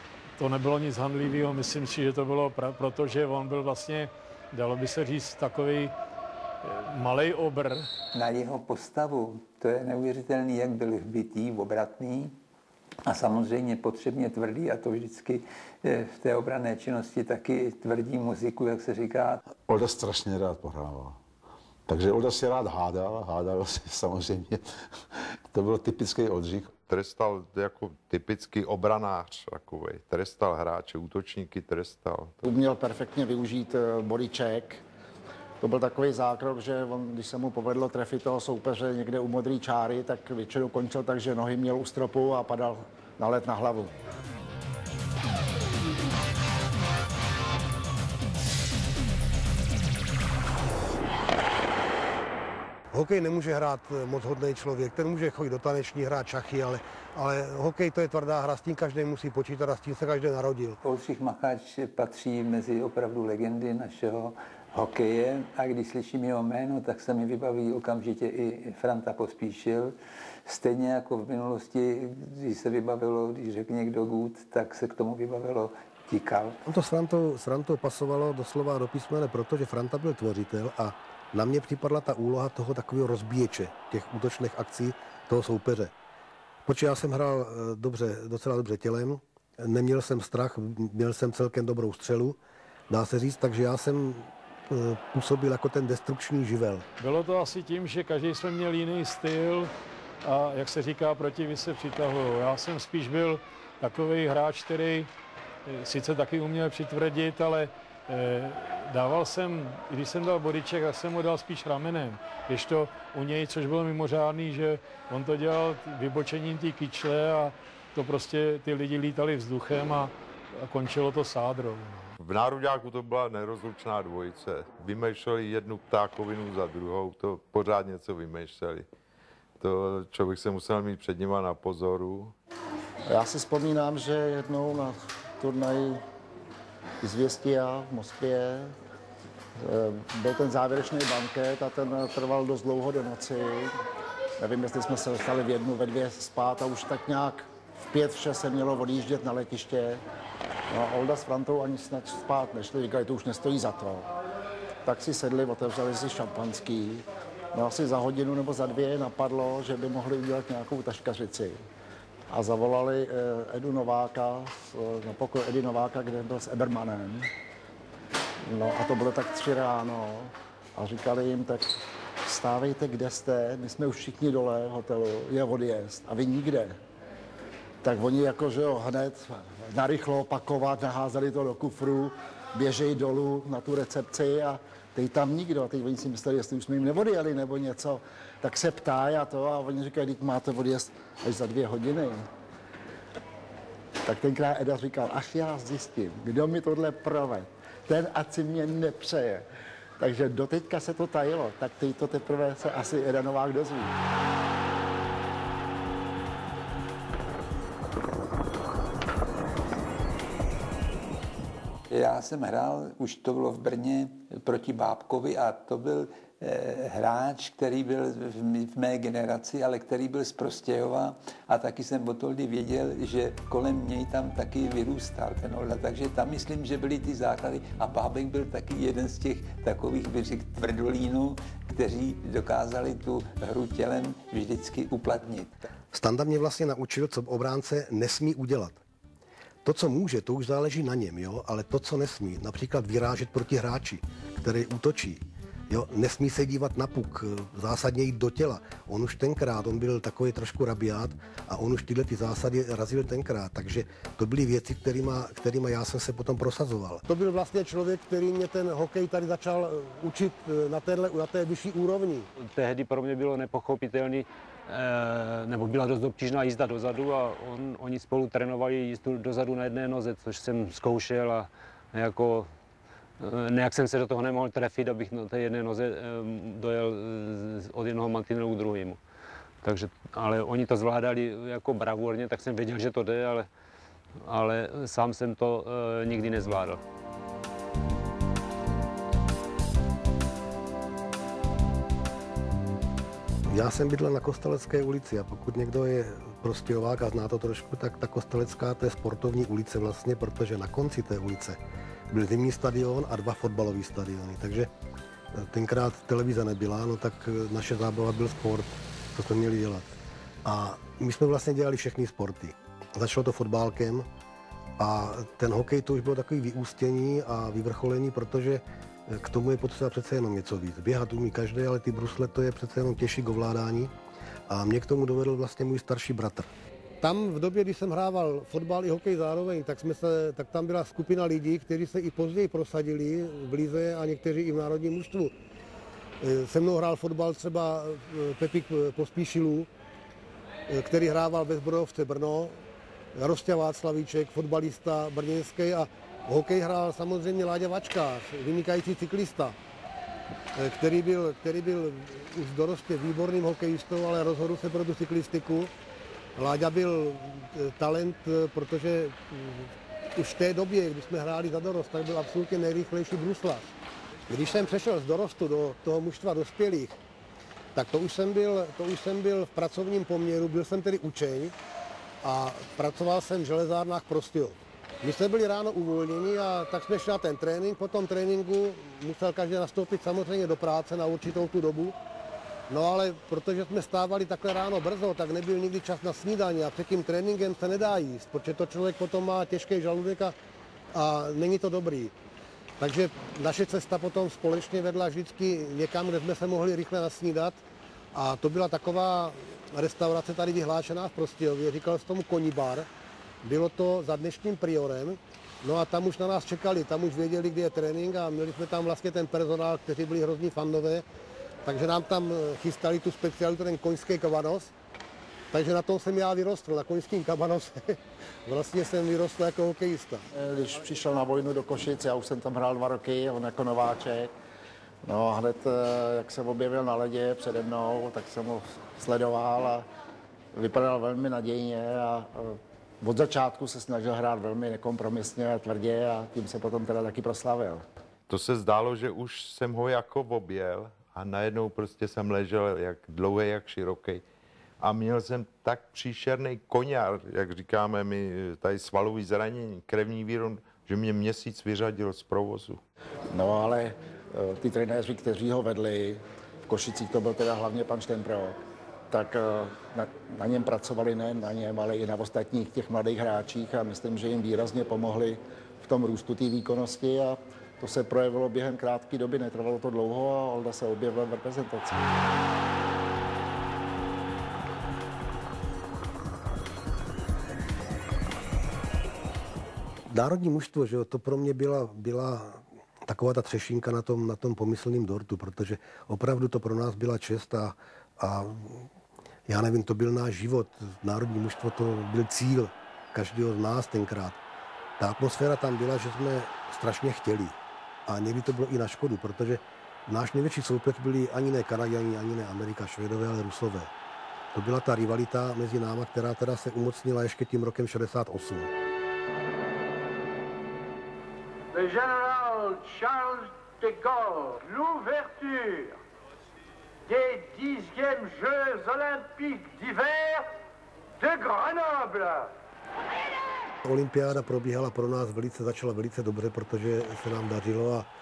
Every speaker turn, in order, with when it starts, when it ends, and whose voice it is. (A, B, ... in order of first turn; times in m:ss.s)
0:00.4-0:06.0 A
0:06.6-0:07.9 A
0:08.1-0:12.4 B
0:13.0-0:19.4 B
0:19.7-0:21.2 C
0:21.9-0:26.7 C
0:26.8-0:32.4 D
0:32.4-0:34.8 E
0:35.6-0:43.9 E
0:52.9-1:00.8 F
1:00.8-1:16.6 B
1:16.7-1:25.9 F
1:26.7-1:32.4 F
1:32.9-1:36.9 F
1:37.0-1:39.7 A
1:40.2-1:45.1 A
1:45.7-2:02.2 A
2:02.2-2:08.8 D
2:09.6-2:12.3 D
2:13.1-2:16.0 E
2:17.0-2:18.7 E
2:19.6-2:23.8 E
2:24.4-2:30.0 E
2:30.7-2:34.1 E
2:34.8-2:41.6 E
2:42.3-2:47.3 E
2:48.4-2:56.8 E
2:57.8-3:12.2 E
3:14.0-3:19.4 E
3:20.0-3:24.0 E
3:31.9-3:55.7 B
3:55.9-3:58.8 F
3:59.6-4:22.3 F
4:22.4-4:32.5 G
4:33.2-4:39.0 G
4:39.6-4:43.5 G
4:44.2-4:46.8 G
4:53.5-5:01.6 F
5:02.1-5:04.7 F
5:05.3-5:09.9 F
5:10.4-5:14.1 F
5:14.8-5:23.9 F
5:24.5-5:26.5 F
5:27.0-5:35.3 F
5:36.2-5:39.7 F
5:40.7-5:42.6 F
5:43.2-5:49.6 F
5:50.6-5:55.7 F
5:56.4-6:03.7 F
6:04.3-6:07.0 F
6:07.8-6:11.6 F
6:12.2-6:22.0 F
6:22.7-6:30.4 F
6:30.9-6:32.1 F
6:32.8-6:37.6 F
6:38.1-6:42.9 F
6:43.4-6:51.1 F
6:51.6-6:54.7 F
6:55.5-7:00.2 F
7:00.3-7:04.3 E
7:05.0-7:09.9 E
7:10.5-7:17.9 E
7:18.3-7:24.2 D
7:24.8-7:32.8 D
7:33.3-7:52.0 E
8:00.1-8:08.9 F
8:09.5-8:14.4 F
8:15.0-8:23.9 F
8:24.5-8:28.7 F
8:31.7-8:36.0 H
8:37.1-8:40.5 H
8:41.2-8:42.5 H
8:43.8-8:48.1 F